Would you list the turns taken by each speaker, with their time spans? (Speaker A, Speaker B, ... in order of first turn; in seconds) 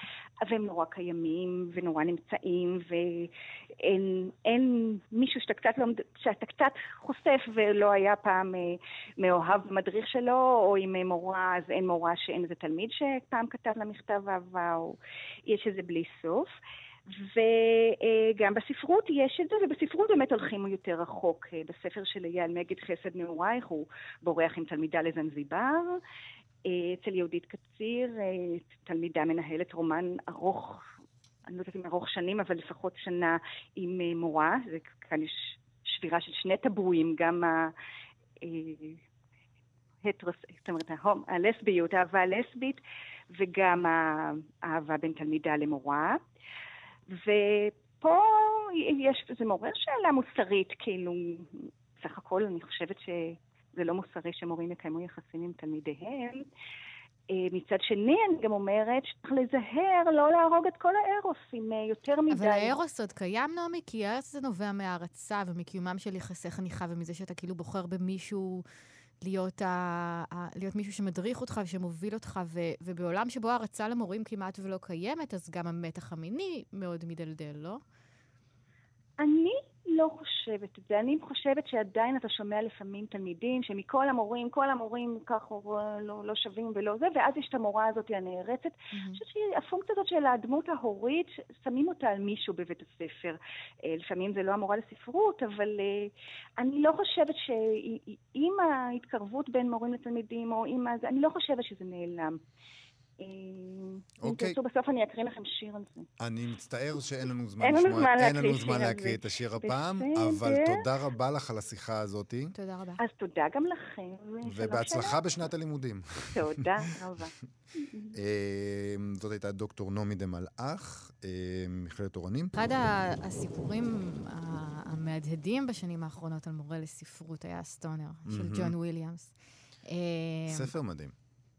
Speaker A: 0.4-16.5, 17.2-26.0, 26.6-30.8, 31.5-37.7, 38.4-39.0, 40.0-42.8, 43.3-46.2, 47.1-56.5, 57.3-62.8, 79.2-102.4, 103.2-106.1, 107.6-110.8, 113.0-115.2, 116.3-118.1
Speaker B: 62.3-68.6, 69.2-77.8, 88.9-89.2, 112.5-113.0, 122.5-129.3, 129.8-130.7
Speaker C: 104.2-104.6, 106.2-112.5, 114.4-116.7, 118.1-122.5, 128.2-128.7, 130.5-131.1